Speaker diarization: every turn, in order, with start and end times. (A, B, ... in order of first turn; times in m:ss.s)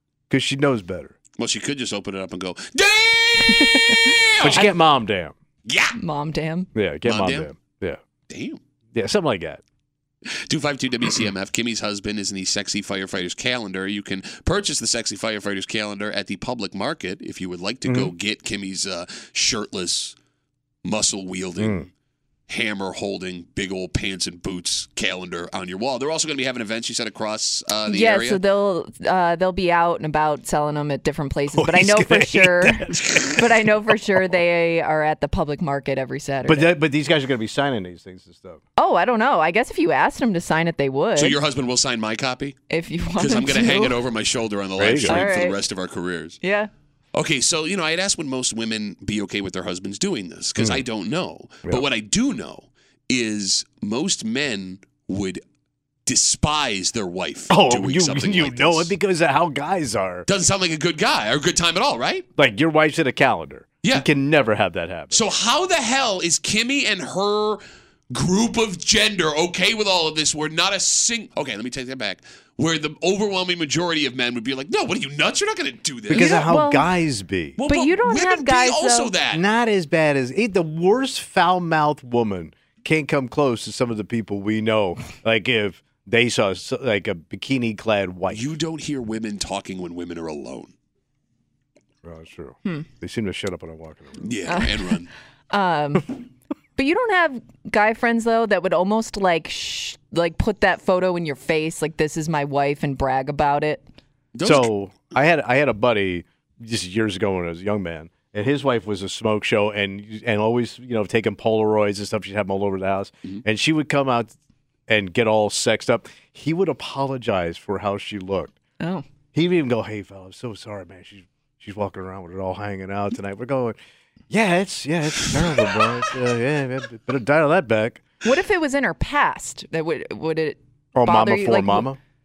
0:00.3-0:01.2 A
0:01.4-0:04.7 B
0:03.5-0:04.2 C
0:04.4-0:05.4 A
0:05.7-0:06.0 B
0:06.0-0:06.7 C
0:06.8-0:08.0 A
0:07.0-0:07.5 B
0:08.3-0:08.6 B
0:08.9-0:09.6 A
0:10.3-0:20.2 B
0:17.8-0:18.1 A
0:20.8-0:21.9 B
0:21.6-0:21.9 A
0:22.5-0:28.4 B
0:27.9-0:36.8 C
0:31.5-0:34.0 A
0:36.4-0:38.6 A
0:38.8-0:41.4 C
0:41.2-0:42.6 B
0:42.7-0:44.0 C
0:43.2-0:46.4 B
0:44.8-0:45.3 A
0:45.1-0:45.6 C
0:46.4-0:46.7 C
0:47.1-0:55.4 B
0:50.6-0:50.8 A
0:56.1-0:58.9 B
0:57.5-1:00.3 A
1:00.3-1:02.3 B
1:02.4-1:05.2 A
1:05.1-1:16.4 B
1:16.1-1:17.6 A
1:16.1-1:16.9 C
1:17.6-1:19.4 B
1:17.7-1:19.1 C
1:19.3-1:28.5 A
1:28.3-1:30.7 B
1:32.0-1:34.3 A
1:34.2-1:35.1 B
1:34.5-1:34.9 C
1:35.5-1:36.1 C
1:36.8-1:43.8 C
1:44.3-1:44.7 B
1:44.4-1:54.3 A
1:54.9-1:58.6 A
1:58.8-1:59.0 C
1:59.3-2:03.8 A
2:04.3-2:08.0 A
2:08.2-2:11.9 C
2:11.0-2:12.0 A